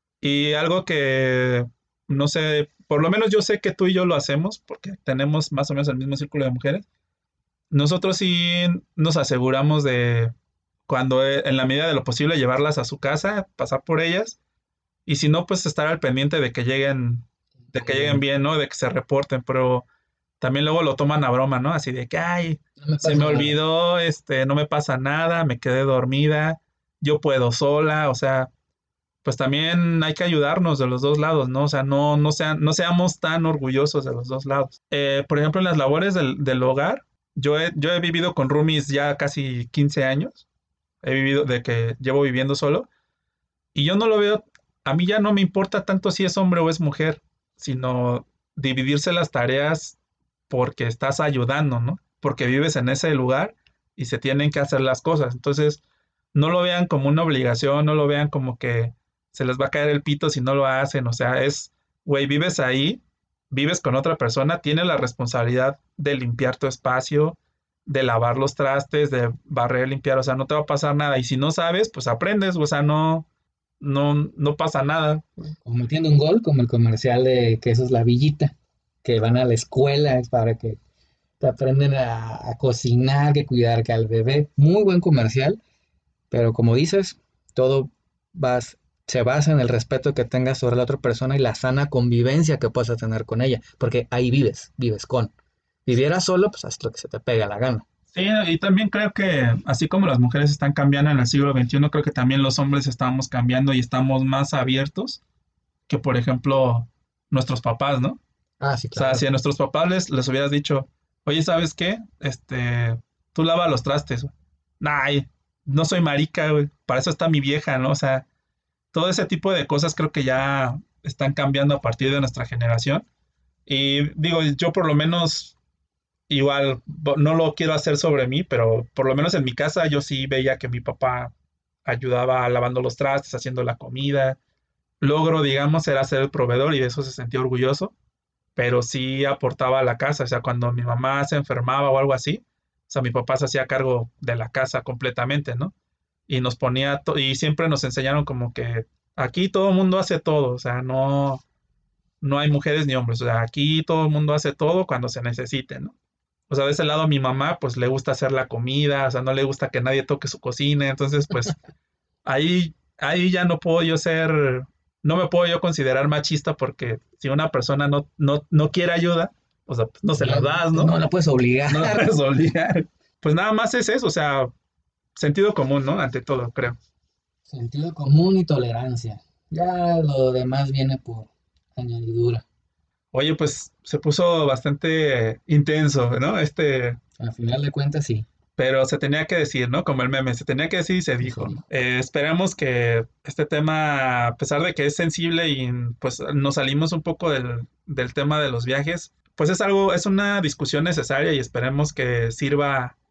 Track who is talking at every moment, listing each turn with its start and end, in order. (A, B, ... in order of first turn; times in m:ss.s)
0:00.2-0:06.8 A
0:07.7-0:10.3 A
0:10.9-0:14.4 A
0:15.0-0:19.8 A
0:17.7-0:18.2 B
0:20.4-0:28.5 A
0:22.8-0:23.6 B
0:29.2-0:40.4 A
0:41.0-0:42.9 A
0:43.7-0:50.0 A
0:50.5-0:55.8 A
0:56.3-1:13.2 A
1:13.8-1:15.5 A
1:15.6-1:20.8 B
1:21.4-1:25.6 B
1:26.3-1:35.3 B
1:35.8-1:37.8 B
1:38.1-1:45.2 A
1:45.9-1:48.2 A
1:48.6-1:49.3 B
1:48.9-1:58.2 A
1:58.9-2:03.0 A
2:03.6-2:05.5 A
2:06.3-2:11.3 A
2:11.8-2:14.4 A
2:15.0-2:17.9 A
2:18.6-2:25.7 A
2:26.3-2:31.4 A
2:32.2-2:35.9 A
2:36.5-2:41.6 A
2:42.2-2:50.9 A
2:50.2-2:52.1 B
2:51.7-2:54.5 A
2:55.2-2:56.8 A
2:57.5-3:02.4 B
3:03.1-3:07.0 A
3:07.2-3:08.2 B
3:08.6-3:23.0 A
3:11.2-3:11.6 B